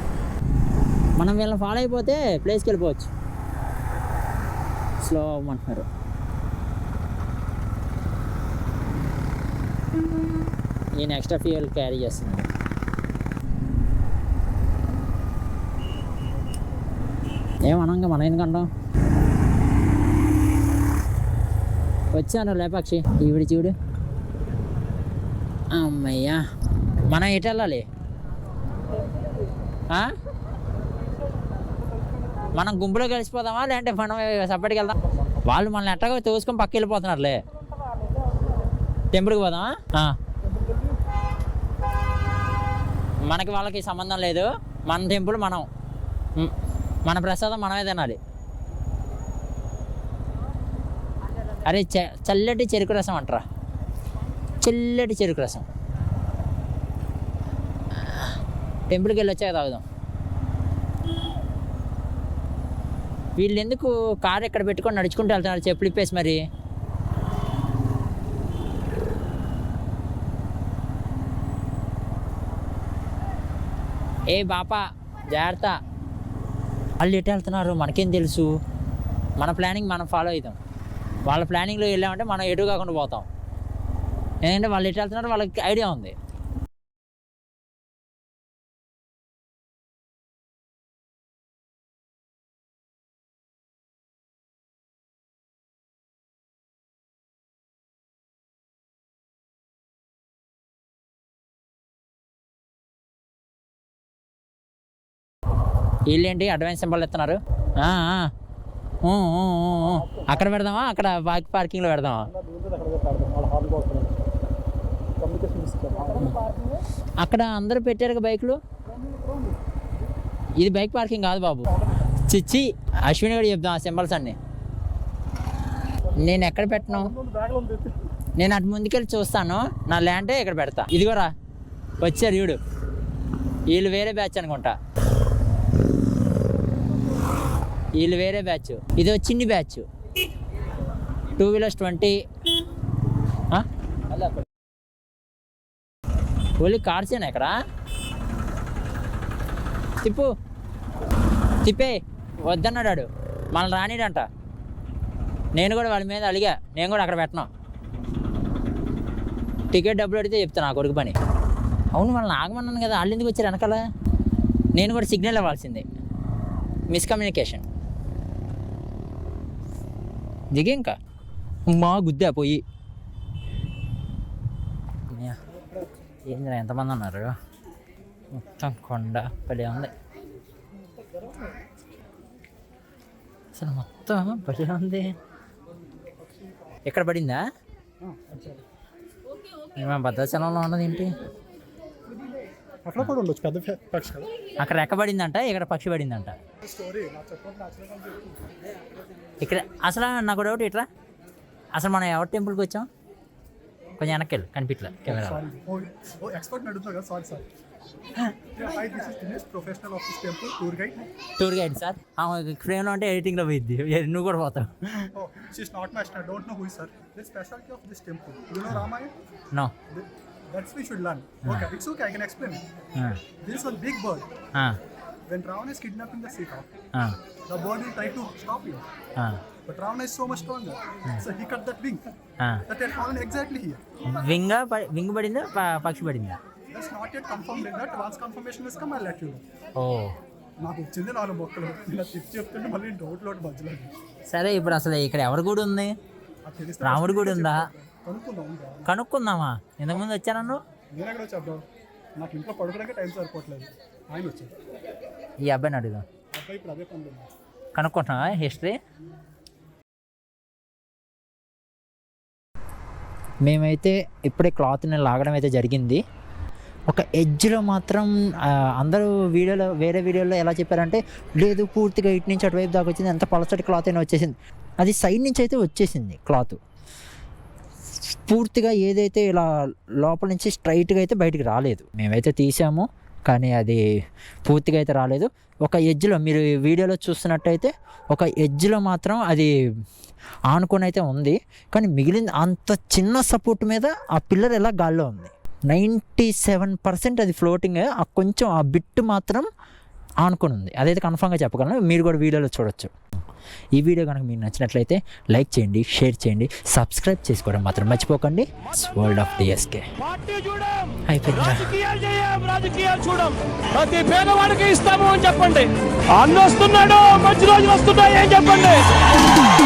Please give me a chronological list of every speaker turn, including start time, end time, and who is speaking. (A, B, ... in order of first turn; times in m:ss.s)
0:01.2-0:03.1 A
0:05.0-0:05.9 A
0:11.0-0:12.5 A
0:17.6-0:18.7 A
0:22.1-0:23.7 A
0:25.7-0:26.4 A
0:27.1-0:27.8 A
0:29.9-0:30.1 A
0:32.5-0:37.4 A
0:39.1-0:40.2 A
0:40.5-0:40.9 B
0:43.2-0:45.7 A
0:47.0-0:48.2 A
0:51.6-0:53.4 A
0:54.6-0:55.6 A
0:57.9-0:58.3 A
0:58.9-0:59.8 A
1:03.4-1:06.4 A
1:14.3-1:15.8 A
1:17.0-1:18.5 A
1:19.4-1:20.6 A
1:21.2-1:23.2 A
1:24.4-1:26.1 A
1:46.1-1:48.3 A
1:49.0-1:52.3 A
1:50.1-1:50.4 B
1:52.3-1:54.2 B
1:55.2-1:56.3 B
1:57.2-1:58.6 A
1:59.1-1:59.4 B
2:00.6-2:04.4 A
2:06.2-2:07.1 A
2:06.9-2:07.9 B
2:08.4-2:11.3 A
2:12.0-2:12.6 A
2:13.7-2:14.8 A
2:18.0-2:19.8 A
2:21.4-2:22.2 A
2:26.6-2:27.5 A
2:30.0-2:30.3 A
2:31.6-2:34.3 A
2:35.6-2:37.5 A
2:39.7-2:41.1 A
2:41.9-2:43.8 A
2:44.8-2:45.8 A
2:46.9-2:47.6 A
2:50.5-2:50.9 A
2:51.7-2:52.6 A
2:55.1-2:55.4 A
2:56.3-2:57.3 A
2:58.3-2:59.9 A
3:03.5-3:05.1 A
3:06.8-3:07.4 A
3:08.0-3:08.6 B
3:09.7-3:11.2 A
3:12.8-3:14.3 B
3:14.6-3:16.4 A
3:16.6-3:18.4 B
3:19.4-3:20.8 A
3:21.7-3:22.9 A
3:24.0-3:25.5 A
3:25.1-3:27.5 B
3:28.2-3:28.6 A
3:28.6-3:31.1 B
3:31.4-3:35.1 A
3:35.1-3:39.1 B
3:39.9-3:42.6 B
3:41.4-3:41.7 A
3:43.0-3:43.2 A
3:43.4-3:44.3 B
3:45.3-3:46.7 B
3:47.5-3:48.8 B
3:49.2-3:49.4 A
3:49.7-3:52.1 B
3:52.4-3:52.6 A
3:52.7-3:53.8 B
3:54.1-3:56.4 A
3:56.7-3:59.4 B
3:59.8-4:00.1 A
4:00.6-4:03.9 B
4:04.3-4:05.9 A
4:06.4-4:08.9 B
4:06.8-4:07.7 A
4:08.8-4:10.6 A
4:10.9-4:11.6 B
4:12.2-4:14.6 B
4:15.4-4:16.0 A
4:16.3-4:17.3 B
4:17.7-4:18.8 A
4:23.4-4:26.0 A
4:26.9-4:36.6 A
4:38.0-4:39.5 A
4:40.0-4:43.8 A
4:44.5-4:49.5 A
4:50.5-4:59.5 A
5:00.2-5:02.9 A
5:03.8-5:09.8 A
5:10.3-5:10.8 C
5:11.0-5:12.5 A
5:12.0-5:18.9 C